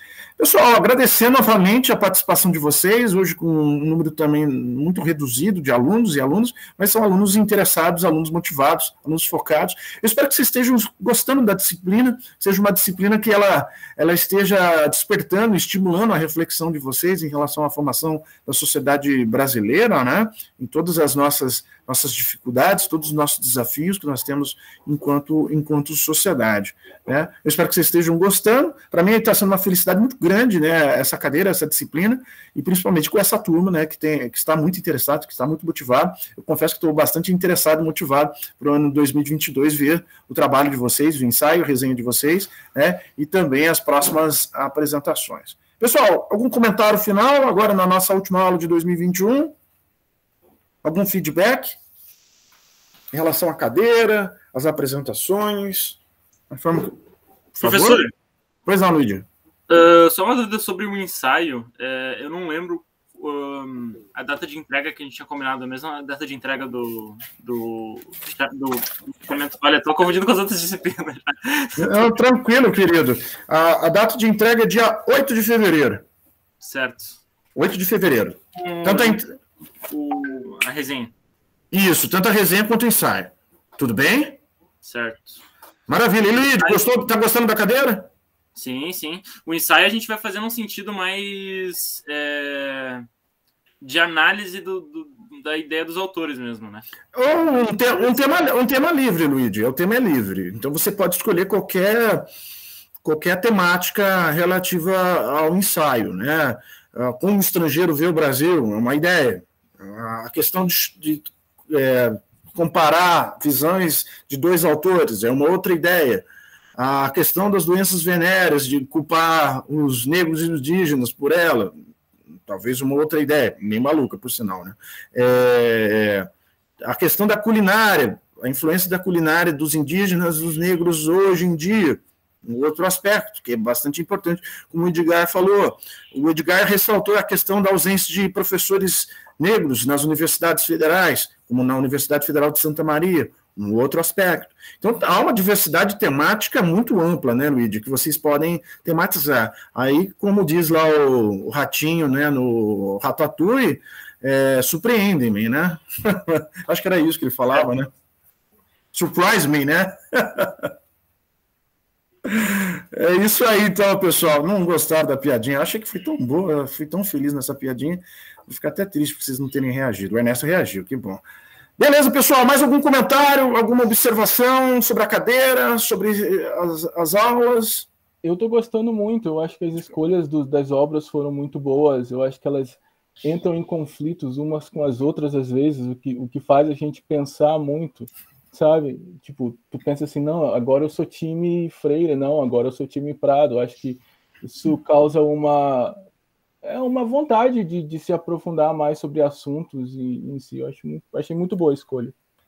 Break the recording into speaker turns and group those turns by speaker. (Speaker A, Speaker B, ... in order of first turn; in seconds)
Speaker A: 0.4-49.5, 50.8-51.8, 53.1-56.0, 56.5-56.9, 57.5-58.1, 58.6-59.3, 71.8-76.0, 77.5-79.3, 81.7-84.4, 85.9-88.1, 97.1-102.3, 103.0-121.7, 122.5-126.3, 126.8-157.9, 158.9-160.7, 162.2-171.2, 171.8-177.9
Speaker B: 57.6-58.1, 59.7-72.1, 76.6-77.2, 78.6-79.2, 79.9-81.1, 84.8-85.4, 88.5-93.1, 93.8-96.8
Speaker C: 178.2-196.0, 196.6-202.1